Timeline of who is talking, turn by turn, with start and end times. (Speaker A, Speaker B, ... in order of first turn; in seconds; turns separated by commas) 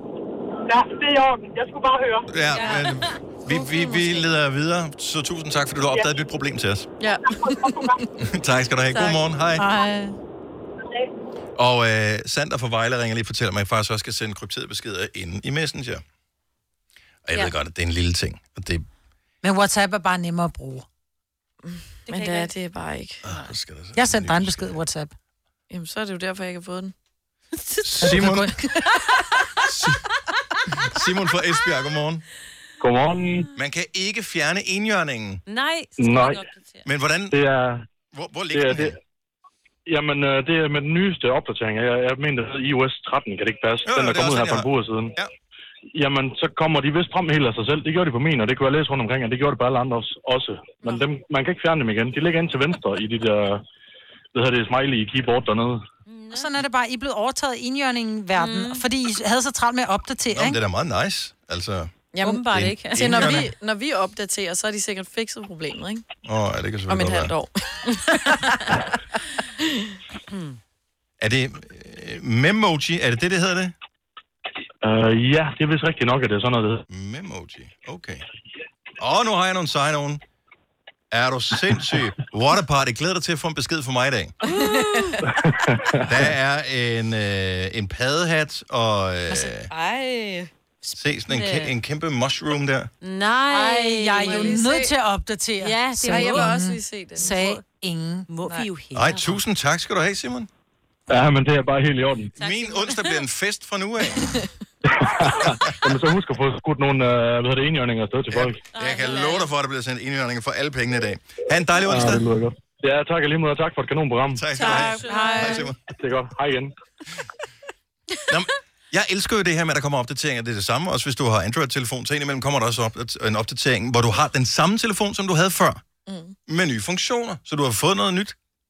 Speaker A: 0.7-2.3, Speaker B: 2.3-6.9, Speaker C: 2.5-3.2, Speaker D: 3.5-4.3, Speaker D: 7.0-8.1, Speaker A: 7.3-8.0, Speaker B: 8.2-9.7, Speaker D: 8.9-9.2, Speaker E: 9.6-10.2, Speaker B: 11.6-16.0, Speaker B: 17.2-18.9, Speaker E: 19.4-20.9, Speaker D: 21.6-23.2, Speaker C: 22.1-22.4, Speaker B: 23.2-24.8, Speaker E: 23.9-25.1, Speaker D: 25.7-26.9, Speaker B: 27.8-28.5, Speaker E: 28.0-28.5, Speaker D: 28.0-29.2, Speaker B: 29.6-30.0, Speaker B: 30.7-32.2, Speaker F: 32.8-33.5, Speaker B: 33.5-35.4, Speaker C: 35.5-36.9, Speaker F: 36.0-36.4, Speaker B: 36.8-37.4, Speaker F: 37.3-37.8, Speaker B: 38.1-39.0, Speaker F: 38.5-39.0, Speaker F: 39.9-45.1, Speaker B: 43.8-45.3, Speaker F: 45.9-53.6, Speaker F: 54.3-55.8, Speaker C: 56.1-56.5, Speaker E: 56.3-60.6, Speaker C: 58.4-58.8, Speaker B: 60.3-61.9, Speaker D: 62.1-66.0, Speaker C: 62.2-63.4, Speaker B: 62.5-63.5, Speaker B: 66.2-67.3, Speaker D: 66.9-68.9, Speaker D: 69.6-69.9, Speaker C: 70.3-70.6, Speaker B: 71.2-73.7, Speaker F: 74.8-76.8, Speaker B: 76.9-78.2, Speaker B: 79.0-80.2, Speaker B: 81.1-84.3, Speaker D: 84.4-85.3, Speaker F: 85.4-86.1, Speaker B: 86.0-89.7, Speaker D: 89.7-90.5, Speaker C: 90.8-91.7, Speaker B: 90.9-92.9, Speaker C: 93.0-94.6, Speaker E: 93.5-98.3, Speaker D: 94.2-94.9, Speaker C: 95.6-96.6, Speaker D: 96.1-97.6, Speaker C: 97.2-97.6, Speaker C: 98.3-99.4, Speaker B: 98.9-100.5, Speaker F: 101.1-102.3, Speaker C: 102.3-103.2, Speaker B: 102.4-104.3, Speaker F: 104.8-108.6, Speaker B: 105.4-105.8, Speaker B: 108.3-112.3, Speaker C: 108.7-109.5, Speaker F: 111.8-114.5, Speaker B: 114.3-115.8, Speaker C: 114.6-115.6, Speaker E: 114.6-115.7, Speaker F: 115.9-116.7, Speaker B: 118.3-125.8, Speaker D: 126.0-126.3, Speaker B: 126.5-128.3